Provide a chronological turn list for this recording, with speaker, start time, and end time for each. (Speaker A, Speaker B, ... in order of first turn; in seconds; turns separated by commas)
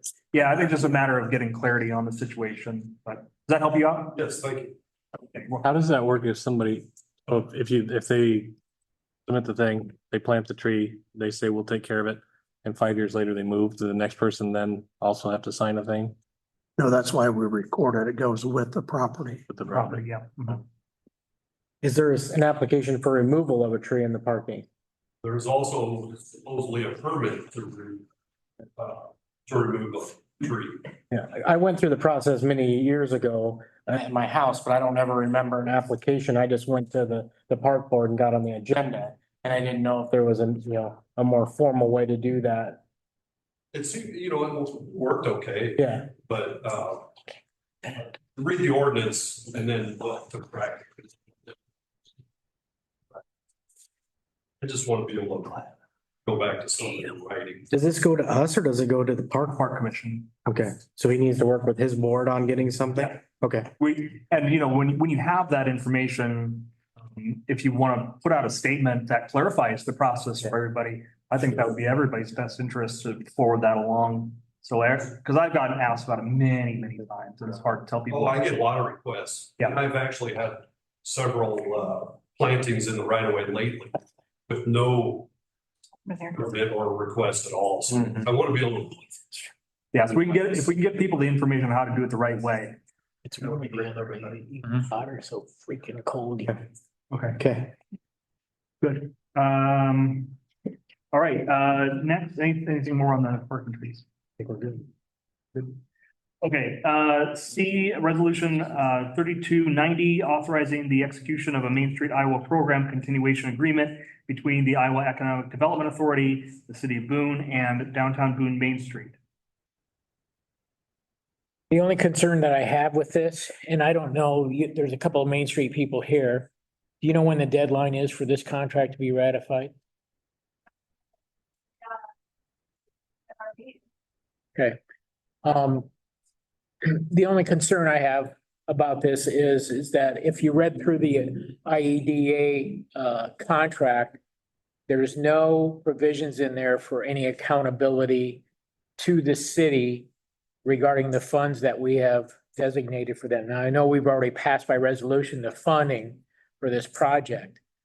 Speaker A: 0.3-4.2, Speaker B: 4.1-4.8, Speaker A: 5.3-5.6, Speaker C: 5.6-8.5, Speaker C: 9.3-16.1, Speaker D: 16.8-19.4, Speaker C: 19.5-20.0, Speaker A: 19.7-20.6, Speaker E: 21.8-24.6, Speaker B: 25.2-28.1, Speaker B: 28.8-30.8, Speaker E: 31.1-42.8, Speaker B: 43.7-47.1, Speaker E: 45.8-46.1, Speaker B: 47.9-51.0, Speaker B: 54.6-55.7, Speaker B: 56.2-57.7, Speaker E: 57.7-59.6, Speaker A: 59.4-60.3, Speaker E: 60.4-63.7, Speaker A: 63.8-78.7, Speaker B: 78.1-85.3, Speaker B: 86.3-89.4, Speaker A: 89.9-92.8, Speaker F: 93.2-96.6, Speaker A: 97.1-97.4, Speaker E: 97.4-97.7, Speaker A: 98.8-100.4, Speaker A: 101.1-104.0, Speaker E: 104.4-104.8, Speaker A: 106.4-119.2, Speaker F: 121.7-126.5, Speaker F: 127.0-129.7, Speaker F: 135.4-135.9, Speaker F: 136.8-144.2, Speaker F: 144.9-148.4, Speaker F: 149.0-150.1, Speaker F: 150.6-157.6